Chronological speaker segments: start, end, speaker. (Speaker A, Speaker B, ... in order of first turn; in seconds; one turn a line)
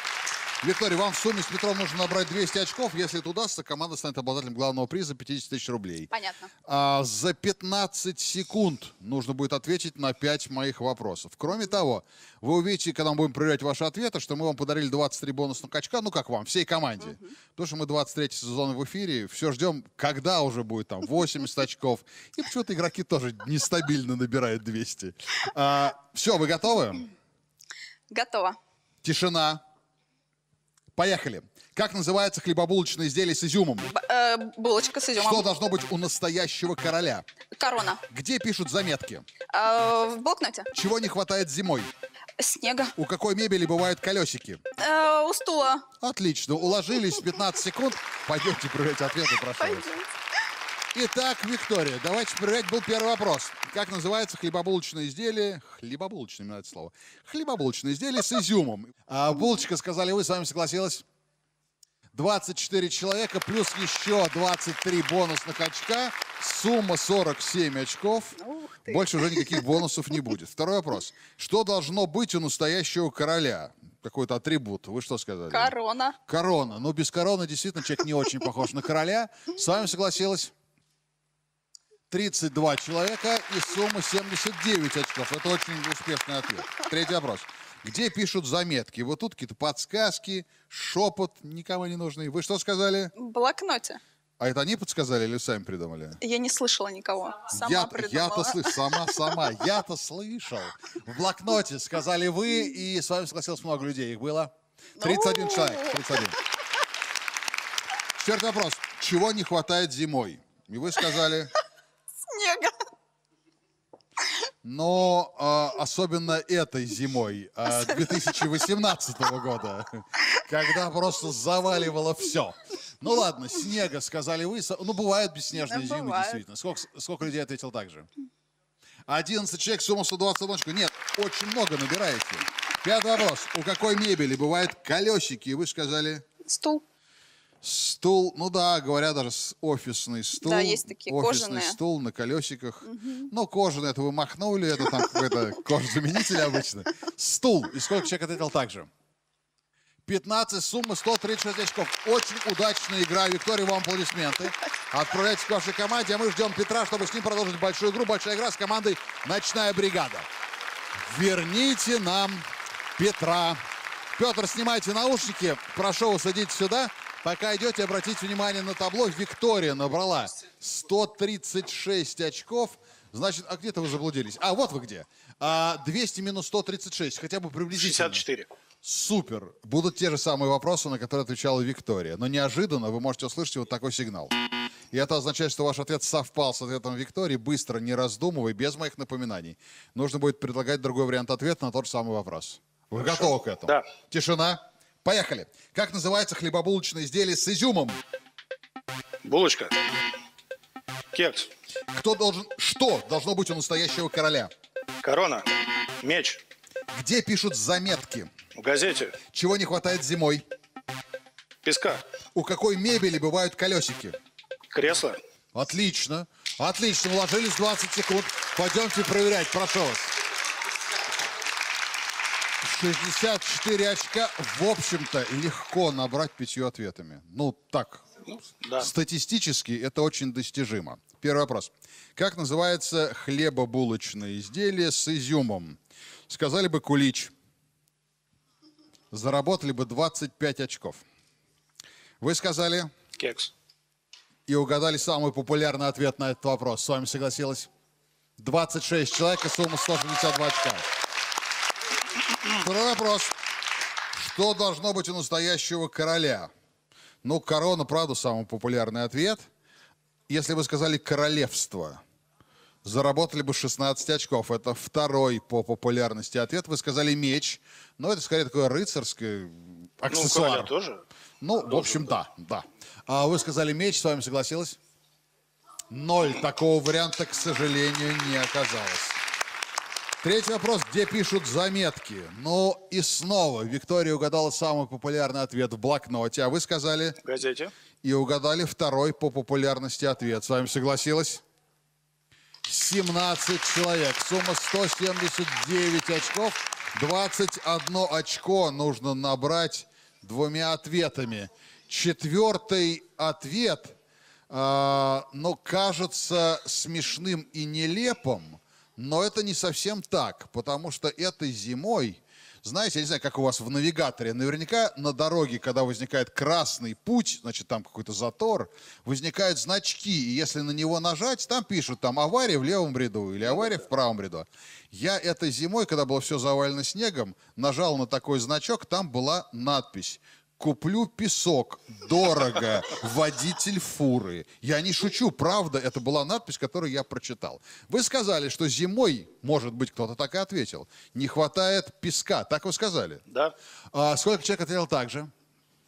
Speaker A: 0.6-6.1
Speaker B: 6.1-6.5
Speaker A: 6.6-27.1
Speaker B: 28.1-28.6
Speaker A: 29.0-29.6
Speaker A: 30.9-33.9
Speaker B: 33.9-35.5
Speaker A: 35.2-37.2
Speaker B: 37.6-38.0
Speaker A: 38.1-39.3
Speaker B: 39.5-40.7
Speaker A: 40.7-41.9
Speaker B: 42.4-42.9
Speaker A: 43.0-44.6
Speaker B: 44.8-45.9
Speaker A: 46.0-49.9
Speaker B: 49.6-50.1
Speaker A: 50.9-61.0
Speaker A: 62.1-75.7
Speaker B: 68.4-69.6
Speaker B: 75.5-76.2
Speaker A: 76.3-80.5
Speaker A: 82.1-93.1
Speaker B: 93.2-94.0
Speaker A: 94.4-96.2
Speaker B: 96.2-99.3
Speaker A: 97.5-106.4
Speaker B: 105.0-106.0
Speaker A: 108.1-111.5
Speaker B: 112.2-112.8
Speaker A: 114.6-128.1
Speaker B: 117.8-118.3
Speaker B: 125.6-126.4
Speaker A: 129.1-136.2
Speaker B: 136.4-136.8
Speaker A: 137.6-148.9
Speaker B: 140.4-141.8
Speaker B: 142.9-143.2
Speaker A: 150.1-160.3
Speaker A: 161.0-162.4
Speaker A: 163.0-163.6
Speaker A: 164.2-178.2
Speaker C: 177.7-178.5
Speaker A: 178.8-184.3
Speaker A: 184.9-198.0
Speaker C: 192.9-193.8
Speaker C: 199.2-199.8
Speaker C: 201.1-201.5
Speaker A: 201.9-204.5
Speaker C: 205.0-205.5
Speaker C: 206.0-206.4
Speaker A: 206.9-208.3
Speaker C: 208.6-209.2
Speaker A: 209.3-210.4
Speaker C: 211.6-212.0
Speaker A: 212.3-214.2
Speaker C: 214.7-215.2
Speaker A: 215.5-220.1
Speaker A: 222.6-228.0
Speaker C: 228.5-228.9
Speaker A: 228.8-235.8
Speaker A: 236.3-237.3
Speaker A: 239.1-241.0
Speaker A: 242.2-242.9
Speaker C: 243.2-243.5
Speaker A: 244.5-247.7
Speaker A: 248.4-250.8
Speaker A: 252.5-253.3
Speaker A: 254.1-256.5
Speaker A: 257.2-259.5
Speaker A: 260.3-262.0
Speaker A: 262.8-270.7
Speaker C: 270.1-271.1
Speaker A: 271.4-274.8
Speaker C: 271.7-272.1
Speaker A: 275.9-279.2
Speaker A: 280.2-287.2
Speaker C: 287.2-287.7
Speaker A: 288.0-291.4
Speaker A: 292.7-304.0
Speaker A: 304.5-343.2
Speaker C: 343.3-343.6
Speaker A: 343.9-345.3